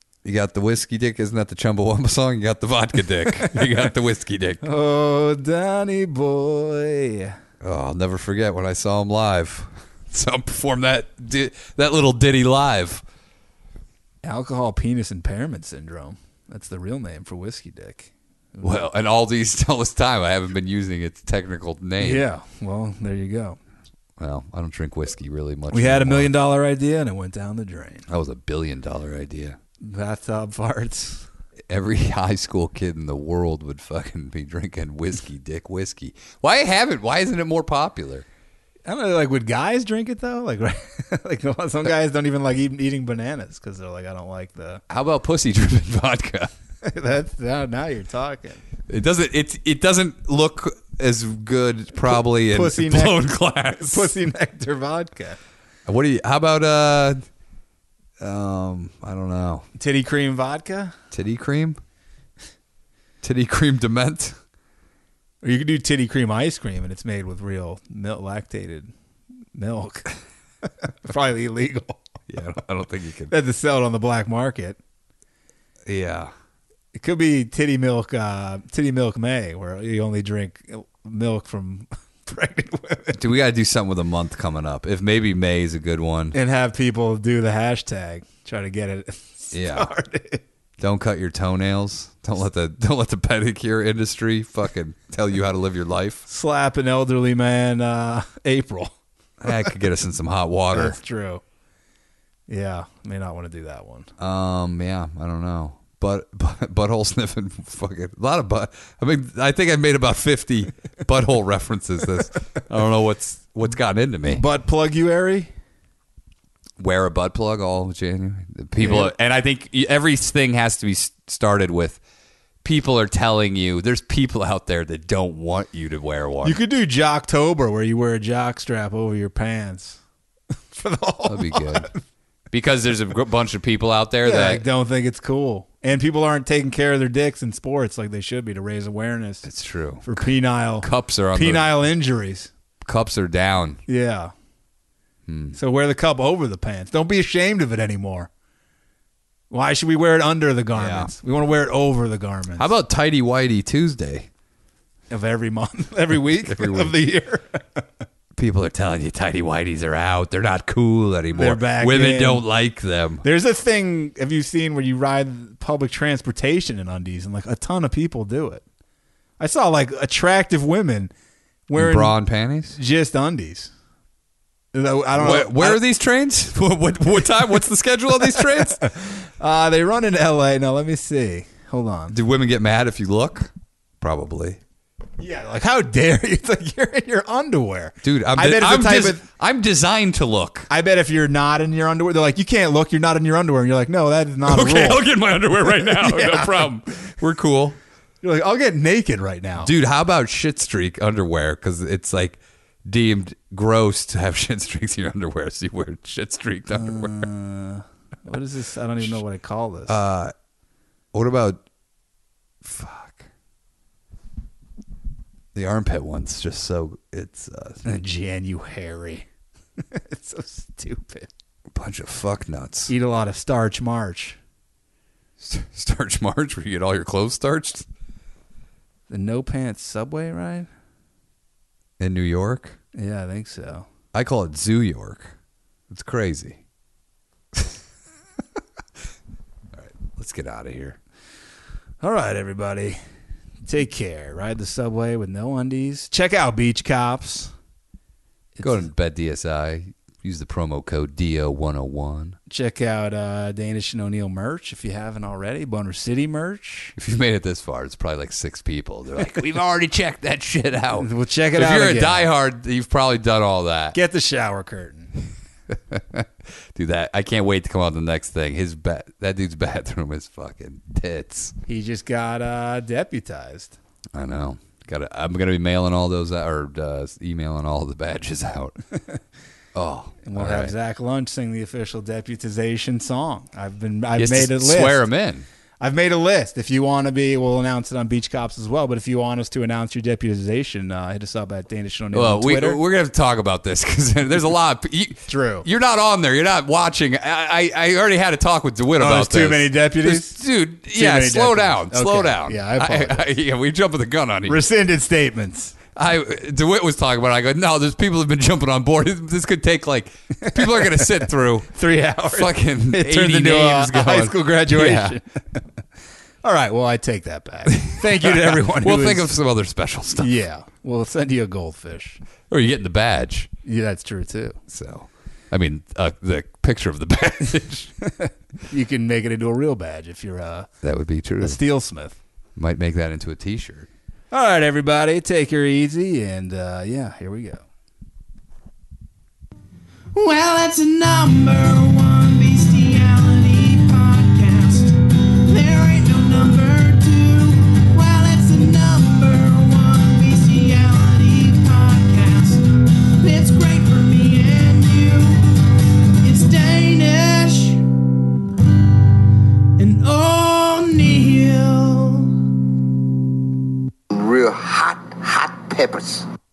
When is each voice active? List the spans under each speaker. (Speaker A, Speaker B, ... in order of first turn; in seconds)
Speaker A: 0.2-4.6, 7.6-13.0, 18.6-22.2, 24.2-26.3, 28.1-29.6, 31.7-38.2, 44.9-46.5, 48.9-54.1, 55.9-57.2, 58.2-59.6, 61.1-61.8, 63.2-64.3, 72.3-73.3, 75.8-76.3, 83.1-86.3, 89.5-89.9, 90.8-96.2, 99.4-101.0, 104.2-114.4, 116.8-122.0, 122.6-126.6, 131.3-131.9, 132.5-134.6, 139.4-140.1, 140.8-141.7, 142.8-143.8, 145.3-145.6, 150.7-151.1, 152.6-154.3, 156.4-156.9, 158.4-163.2, 171.7-172.8, 175.1-178.9, 182.1-184.6, 188.0-190.7, 194.5-197.8, 199.6-207.2, 209.9-210.3, 211.1-211.6, 212.6-213.2, 215.5-217.8, 221.7-222.9, 225.4-227.8, 232.0-232.8, 234.1-235.3, 235.9-236.6, 239.7-241.0, 248.6-252.4, 256.9-264.0, 265.7-271.5, 274.1-278.8, 279.7-280.7, 284.1-285.4, 292.1-304.6, 305.9-311.7, 312.2-315.1, 317.7-320.3, 322.5-323.5, 324.7-327.9, 330.8-331.6, 332.6-333.9
Speaker B: 3.2-3.9, 4.6-7.4, 14.2-18.9, 22.0-23.6, 25.7-28.0, 29.8-31.3, 38.9-44.8, 46.8-48.6, 52.0-53.2, 53.9-55.4, 59.8-60.9, 65.4-68.9, 69.5-70.1, 70.6-72.0, 73.3-74.8, 76.9-83.2, 86.3-90.4, 96.3-98.9, 100.7-101.4, 102.5-104.1, 114.3-115.5, 118.8-119.1, 126.4-130.0, 130.7-132.0, 134.2-139.4, 140.0-142.5, 143.9-144.3, 145.5-148.3, 149.5-152.7, 155.1-157.8, 161.3-162.4, 163.2-168.6, 169.4-171.1, 171.7-172.2, 172.7-173.7, 174.7-175.8, 178.3-182.2, 185.2-189.2, 190.7-196.7, 198.2-199.7, 206.7-210.0, 217.8-219.2, 219.8-221.3, 222.9-224.4, 229.1-230.7, 232.9-233.9, 242.0-243.0, 243.6-247.5, 248.6-248.9, 252.5-256.9, 261.0-262.3, 263.9-265.1, 271.7-273.8, 280.2-285.1, 285.8-292.8, 295.3-295.7, 299.0-303.3, 304.5-305.7, 310.4-315.6, 316.4-319.3, 320.2-322.2, 323.6-324.6, 328.1-330.7, 331.4-332.2, 334.3-337.6
Speaker C: 340.1-355.4, 356.2-357.8, 359.8-362.3
Speaker D: 364.1-366.2